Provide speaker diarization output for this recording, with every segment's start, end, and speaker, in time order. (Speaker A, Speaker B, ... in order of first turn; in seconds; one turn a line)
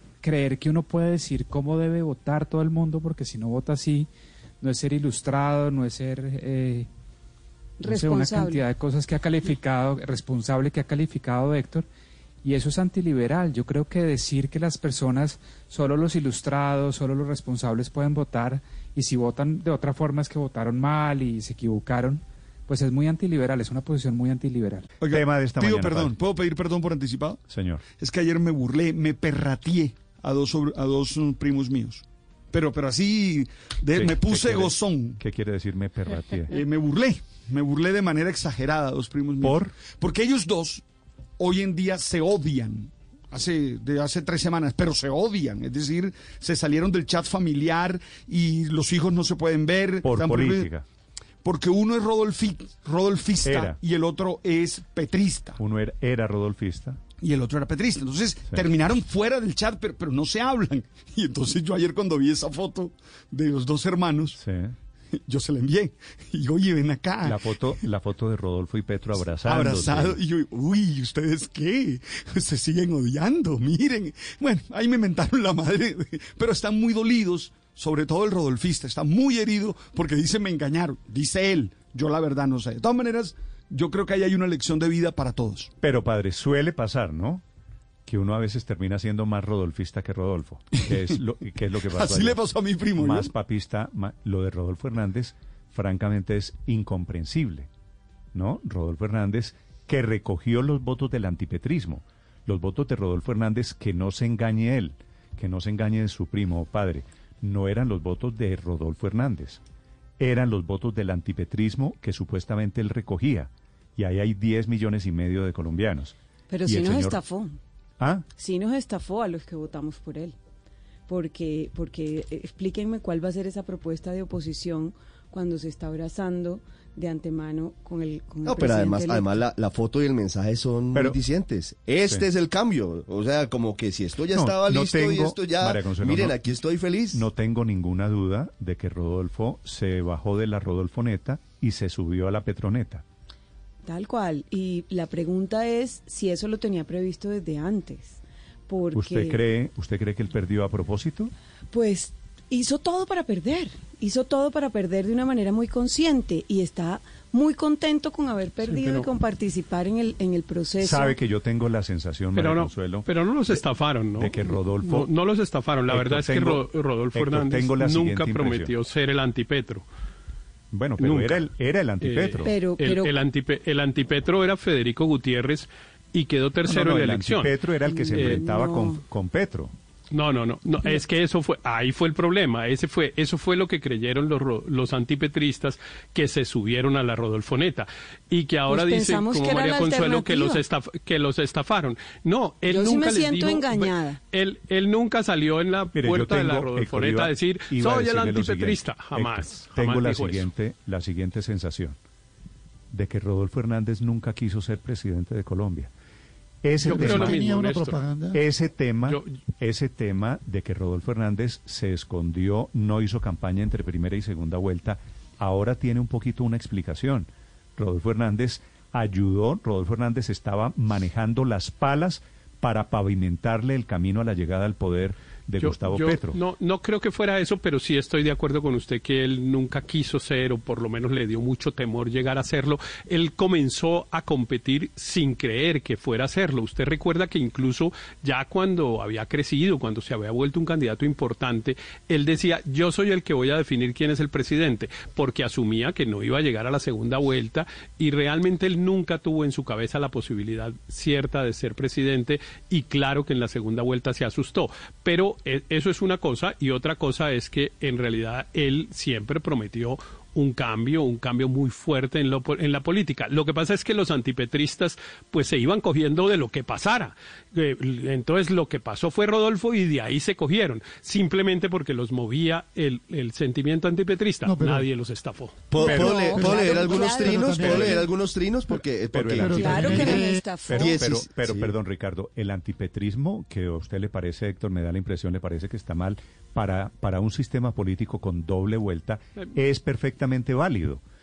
Speaker A: 0.2-4.1
Speaker A: 4.6-6.9
Speaker B: 7.8-8.6
Speaker A: 7.8-11.8
Speaker A: 12.4-24.9
Speaker C: 25.0-27.4
Speaker D: 25.1-26.1
Speaker D: 27.5-27.8
Speaker C: 28.0-35.2
Speaker D: 33.9-36.5
Speaker C: 36.5-40.8
Speaker D: 39.4-39.8
Speaker C: 41.4-50.7
Speaker D: 50.0-50.8
Speaker C: 51.4-55.6
Speaker D: 53.4-53.8
Speaker D: 55.6-57.0
Speaker C: 57.2-64.4
Speaker D: 64.4-64.7
Speaker C: 65.2-67.4
Speaker D: 67.2-70.2
Speaker C: 69.3-85.7
Speaker D: 85.8-87.4
Speaker D: 88.0-97.7
Speaker C: 91.9-93.3
Speaker D: 98.3-109.6
Speaker D: 110.2-116.1
Speaker B: 116.5-117.6
Speaker D: 116.7-117.2
Speaker D: 118.0-118.2
Speaker B: 118.4-120.3
Speaker B: 121.1-129.4
Speaker E: 128.4-137.3
Speaker D: 130.9-131.2
Speaker D: 134.3-136.4
Speaker D: 137.1-143.0
Speaker B: 143.8-149.4
Speaker D: 148.9-151.3
Speaker B: 151.7-161.2
Speaker F: 158.6-159.1
Speaker D: 160.8-163.6
Speaker F: 162.3-169.8
Speaker D: 164.1-165.1
Speaker D: 165.9-168.7
Speaker D: 170.7-172.6
Speaker F: 171.0-171.4
Speaker F: 172.0-177.5
Speaker B: 172.4-173.1
Speaker D: 176.6-179.7
Speaker B: 177.8-179.0
Speaker F: 178.1-178.4
Speaker F: 180.1-200.4
Speaker B: 188.7-190.6
Speaker B: 192.7-194.2
Speaker D: 195.9-201.9
Speaker D: 202.9-205.9
Speaker D: 206.6-207.4
Speaker G: 206.8-208.4
Speaker F: 206.8-207.9
Speaker D: 208.3-226.4
Speaker F: 209.1-209.3
Speaker F: 225.6-275.6
Speaker G: 274.4-274.9
Speaker E: 275.7-281.7
Speaker B: 275.8-278.1
Speaker G: 275.8-278.0
Speaker D: 275.9-276.4
Speaker D: 279.1-291.0
Speaker G: 279.4-280.4
Speaker B: 279.4-281.1